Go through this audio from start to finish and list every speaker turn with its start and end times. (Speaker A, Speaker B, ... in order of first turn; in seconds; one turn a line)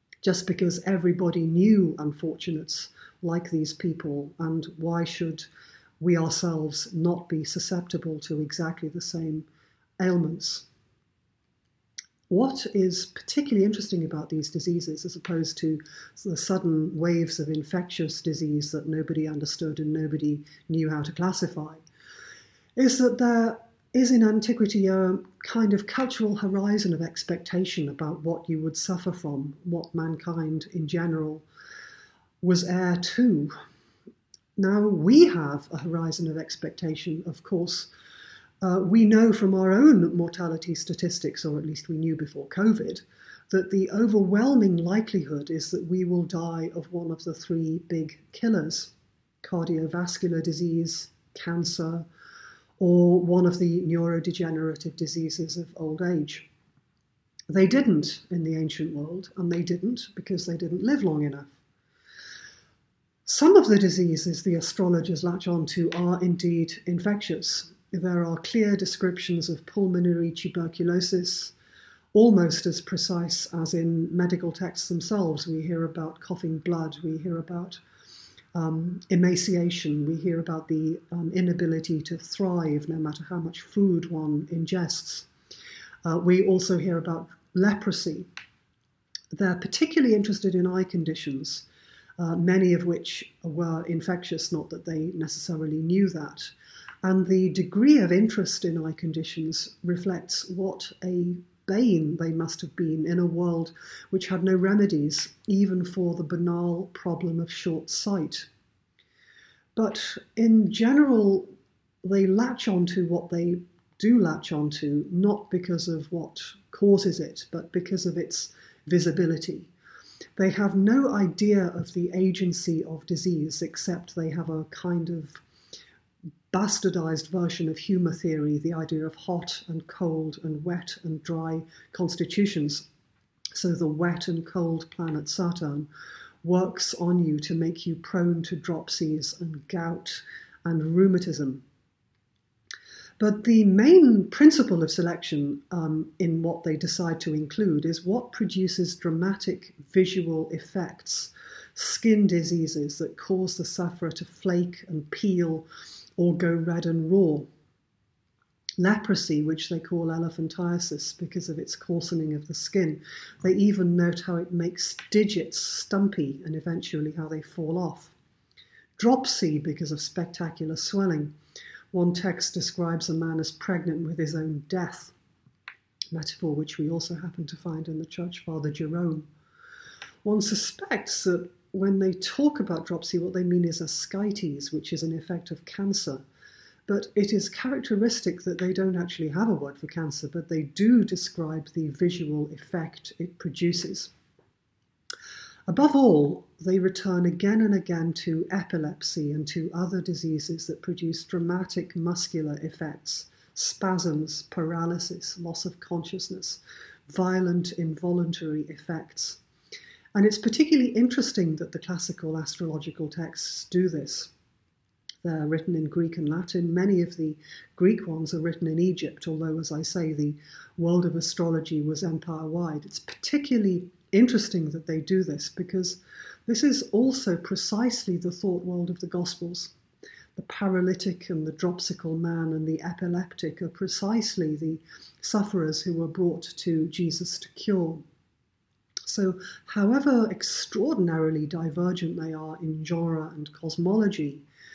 Speaker A: 0.2-5.5
Speaker A: 6.0-9.5
Speaker A: 10.0-10.7
Speaker A: 12.3-21.8
Speaker A: 22.8-31.5
Speaker A: 32.4-33.5
Speaker A: 34.6-37.9
Speaker A: 38.6-52.1
Speaker A: 52.8-56.5
Speaker A: 57.5-61.6
Speaker A: 63.3-71.5
Speaker A: 72.1-77.8
Speaker A: 78.5-85.3
Speaker A: 86.0-88.3
Speaker A: 89.3-91.7
Speaker A: 92.2-108.5
Speaker A: 109.8-119.7
Speaker A: 120.4-125.4
Speaker A: 126.5-132.9
Speaker A: 133.6-135.9
Speaker A: 136.4-141.6
Speaker A: 143.2-157.5
Speaker A: 158.8-168.2
Speaker A: 169.0-171.3
Speaker A: 171.9-175.2
Speaker A: 176.1-179.3
Speaker A: 180.2-186.2
Speaker A: 186.9-194.1
Speaker A: 195.7-209.4
Speaker A: 210.2-214.3
Speaker A: 215.2-229.7
Speaker A: 230.4-238.0
Speaker A: 239.1-244.5